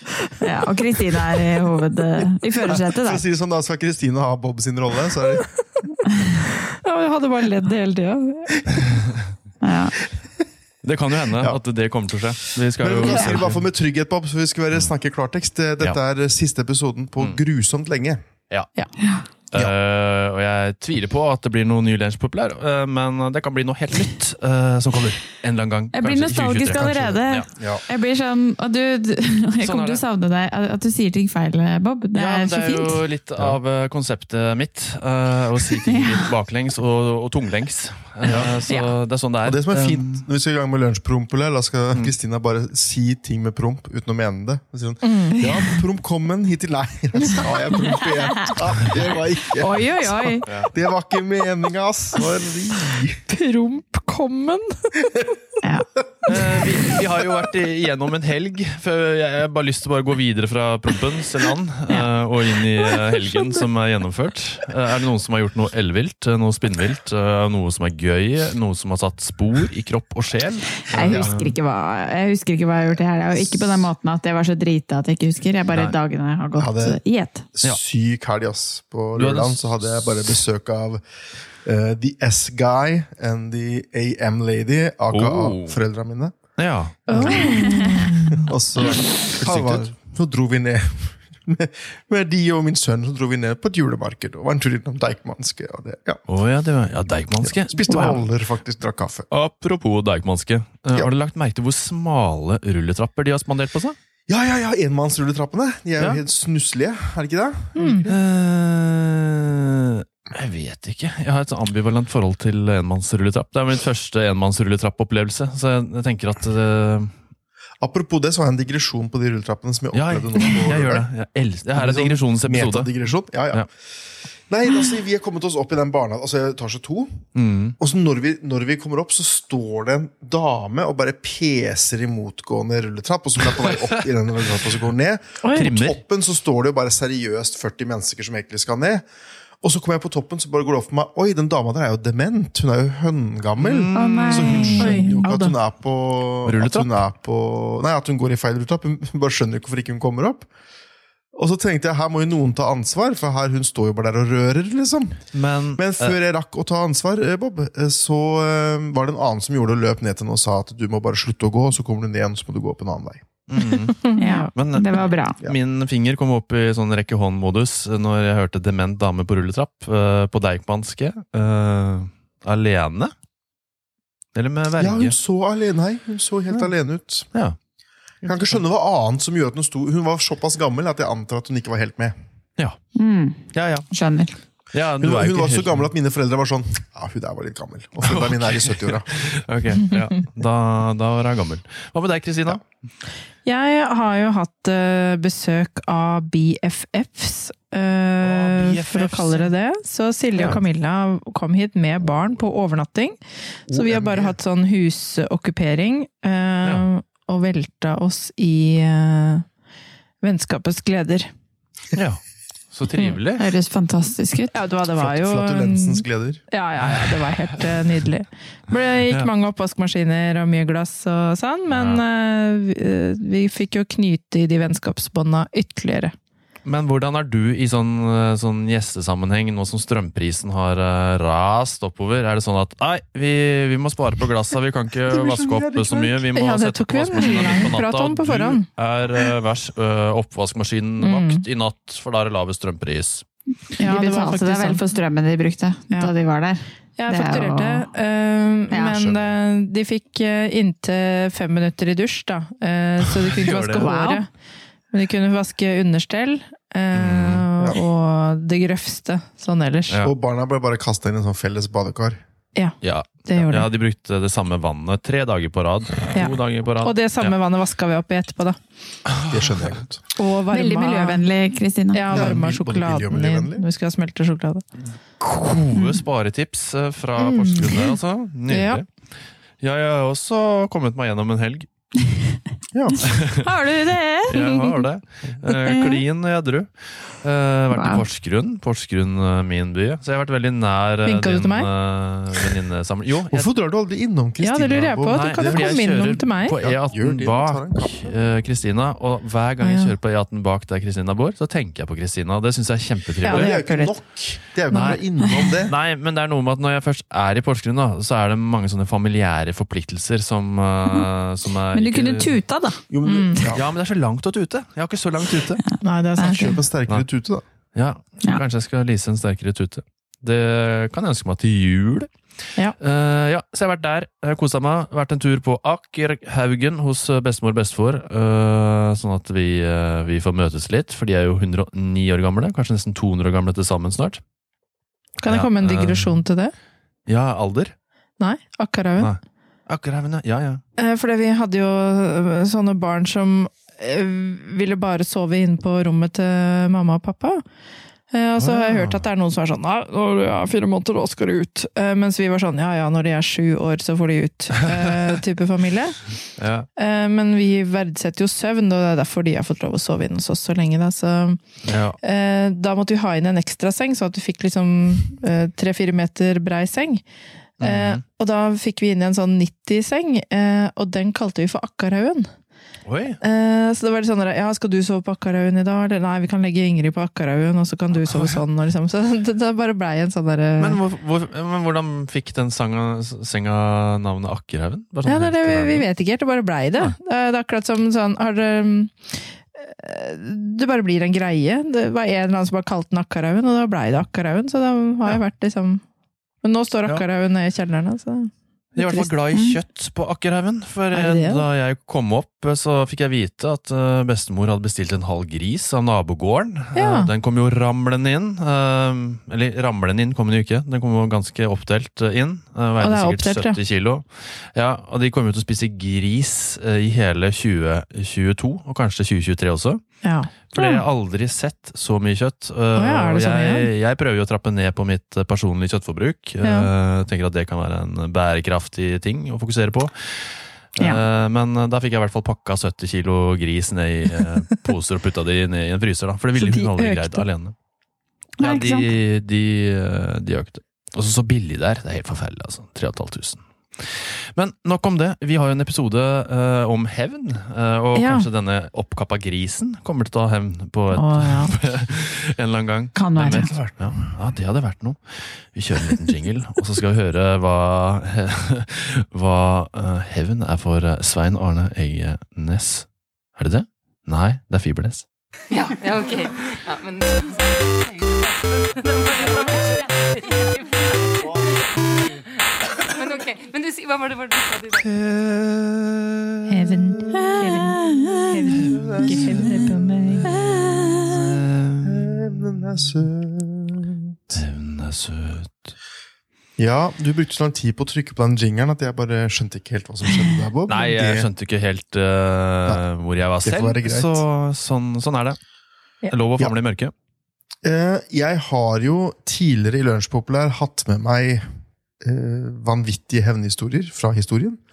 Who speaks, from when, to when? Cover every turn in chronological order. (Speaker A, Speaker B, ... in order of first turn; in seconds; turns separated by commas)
Speaker A: 0.4-3.2, Speaker B: 2.6-5.5, Speaker C: 6.8-8.9, Speaker A: 9.6-9.9, Speaker D: 10.8-13.6, Speaker B: 12.8-18.2, Speaker A: 19.0-19.3, Speaker D: 19.5-27.5, Speaker A: 25.9-33.0, Speaker B: 26.8-27.8, Speaker D: 29.6-30.0, Speaker D: 32.1-40.2, Speaker B: 38.2-38.5, Speaker B: 39.4-53.3, Speaker C: 45.0-45.3, Speaker A: 45.3-45.8, Speaker A: 48.0-48.5, Speaker A: 49.5-50.5, Speaker C: 53.3-55.0, Speaker A: 55.6-55.9, Speaker D: 56.3-71.5, Speaker A: 70.8-77.5, Speaker B: 71.0-71.4, Speaker B: 73.3-73.9, Speaker B: 76.6-77.0, Speaker B: 77.5-81.0, Speaker D: 79.1-80.4, Speaker B: 81.6-86.5, Speaker D: 85.1-85.8, Speaker D: 86.6-87.5, Speaker B: 87.1-87.7, Speaker C: 87.1-88.3, Speaker A: 87.5-88.0, Speaker B: 88.3-96.2, Speaker D: 88.9-89.9, Speaker D: 96.3-98.2, Speaker B: 97.4-99.3, Speaker D: 99.3-104.0, Speaker B: 104.3-108.2, Speaker C: 107.7-108.0, Speaker D: 108.0-117.1, Speaker B: 117.8-121.1, Speaker D: 119.9-122.9, Speaker B: 121.7-123.7, Speaker B: 124.5-127.3, Speaker D: 127.3-127.8, Speaker B: 127.8-139.1, Speaker D: 133.6-133.9, Speaker C: 135.4-135.7, Speaker D: 135.5-136.0, Speaker B: 139.6-150.5, Speaker D: 143.6-145.1, Speaker A: 143.9-145.1, Speaker C: 144.8-145.5, Speaker D: 146.4-146.9, Speaker B: 151.3-163.3, Speaker D: 155.3-156.2, Speaker D: 163.5-173.1, Speaker C: 164.0-164.5, Speaker A: 164.2-165.4, Speaker D: 174.3-175.1, Speaker B: 174.8-177.3, Speaker B: 178.2-182.1, Speaker D: 178.2-178.6, Speaker A: 182.9-184.3, Speaker D: 183.5-183.9, Speaker D: 184.7-185.8, Speaker B: 185.0-189.2, Speaker D: 188.0-192.6, Speaker C: 193.4-209.4, Speaker D: 198.2-199.5, Speaker B: 203.7-204.3, Speaker C: 210.2-211.3, Speaker D: 211.9-212.2, Speaker D: 212.7-213.4, Speaker A: 213.4-214.6, Speaker C: 214.5-226.1, Speaker B: 215.0-216.4, Speaker D: 221.7-222.0, Speaker D: 226.6-243.2, Speaker B: 235.1-236.1, Speaker C: 236.3-238.6, Speaker C: 241.0-241.4, Speaker A: 243.8-247.9, Speaker C: 243.8-244.8, Speaker C: 247.0-254.3, Speaker A: 248.7-248.9, Speaker B: 248.8-249.3, Speaker D: 253.3-253.9, Speaker A: 253.8-254.2, Speaker C: 254.9-260.0, Speaker D: 256.9-257.4, Speaker B: 260.0-262.2, Speaker C: 262.5-263.7, Speaker D: 262.8-267.3, Speaker C: 266.1-268.6, Speaker D: 269.1-269.8, Speaker B: 269.3-270.0, Speaker C: 270.1-271.2, Speaker A: 270.5-272.1, Speaker C: 271.9-274.6, Speaker B: 272.1-273.6, Speaker D: 272.1-272.4, Speaker D: 275.2-281.9, Speaker C: 277.2-277.9, Speaker C: 278.5-278.8, Speaker B: 282.7-283.1, Speaker D: 283.1-283.4, Speaker A: 283.4-284.4, Speaker D: 284.3-293.5, Speaker A: 285.7-286.0, Speaker A: 287.7-288.0, Speaker C: 291.0-291.7, Speaker B: 293.3-295.8, Speaker C: 294.4-296.6, Speaker D: 295.1-303.5, Speaker B: 296.5-298.1, Speaker C: 299.6-299.9, Speaker C: 303.2-303.9, Speaker B: 303.2-305.7, Speaker A: 303.5-303.8, Speaker C: 304.7-305.0, Speaker D: 304.7-312.3, Speaker A: 311.7-312.8, Speaker B: 312.9-313.6, Speaker C: 313.0-313.4, Speaker D: 313.5-315.6, Speaker A: 315.7-316.5, Speaker C: 315.8-316.6, Speaker B: 316.3-317.4, Speaker D: 317.7-334.2, Speaker C: 335.2-336.5, Speaker D: 335.2-336.2, Speaker D: 337.1-337.7, Speaker C: 338.2-339.1, Speaker D: 339.0-340.6, Speaker C: 340.8-347.4, Speaker C: 348.1-356.2, Speaker D: 348.4-349.0, Speaker D: 356.4-356.7, Speaker C: 356.8-361.4, Speaker D: 361.6-362.0, Speaker C: 362.0-367.0, Speaker D: 367.6-368.0, Speaker C: 367.6-372.3, Speaker D: 372.9-373.2, Speaker C: 373.2-380.8, Speaker D: 377.9-378.4, Speaker D: 380.6-385.9, Speaker C: 385.0-395.8, Speaker C: 396.4-399.1, Speaker D: 398.7-419.8, Speaker C: 400.9-401.4, Speaker C: 406.7-407.1, Speaker C: 412.8-413.6, Speaker C: 420.0-420.8, Speaker D: 420.5-437.5, Speaker C: 422.8-423.7, Speaker C: 426.4-426.7, Speaker C: 436.4-437.2, Speaker A: 438.4-438.9, Speaker D: 438.4-465.1, Speaker C: 447.9-448.2, Speaker C: 450.9-451.5, Speaker A: 452.9-453.5, Speaker B: 453.3-454.0, Speaker E: 465.5-474.9, Speaker D: 474.8-476.7, Speaker C: 476.5-480.3, Speaker A: 477.1-478.5, Speaker D: 478.5-480.3, Speaker B: 478.7-479.8, Speaker A: 480.3-481.1, Speaker D: 480.9-483.0, Speaker B: 481.8-484.4, Speaker D: 484.3-485.7, Speaker B: 486.6-491.3, Speaker D: 490.7-495.4, Speaker B: 493.4-494.2, Speaker D: 496.1-496.9, Speaker B: 497.6-501.5, Speaker B: 502.0-504.6